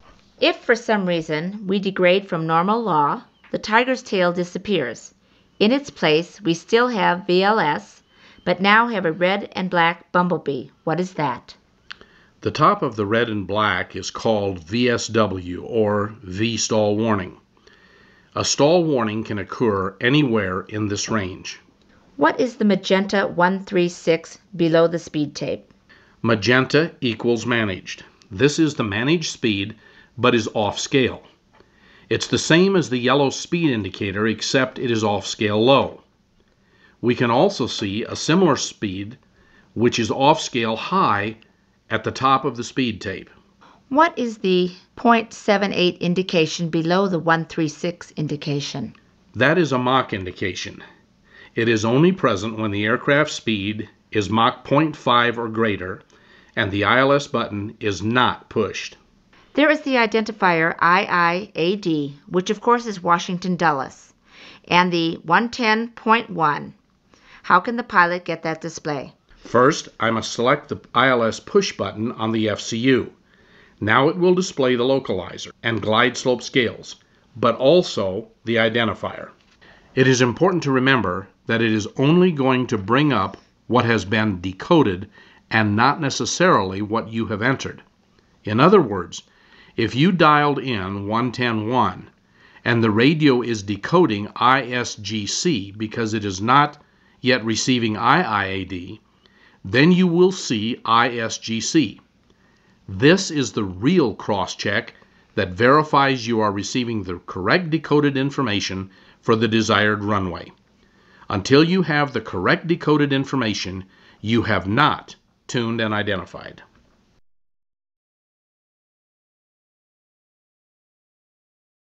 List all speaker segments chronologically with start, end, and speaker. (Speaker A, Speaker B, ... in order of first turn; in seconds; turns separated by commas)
Speaker A: 0.4-11.6, Speaker B: 12.4-17.4, Speaker B: 18.3-21.6, Speaker A: 22.2-25.7, Speaker B: 26.2-31.3, Speaker B: 32.1-36.0, Speaker B: 37.0-39.2, Speaker B: 39.7-41.4, Speaker B: 41.9-43.3, Speaker A: 43.9-48.9, Speaker B: 49.3-50.8, Speaker B: 51.5-56.0, Speaker B: 56.5-59.0, Speaker A: 59.5-64.1, Speaker A: 64.7-66.8, Speaker A: 67.4-69.1, Speaker B: 69.4-73.1, Speaker B: 73.8-79.3, Speaker B: 80.0-87.8, Speaker B: 88.4-89.2, Speaker B: 89.8-92.1, Speaker B: 92.6-99.0, Speaker B: 99.6-102.0, Speaker B: 102.9-110.5, Speaker B: 111.3-116.6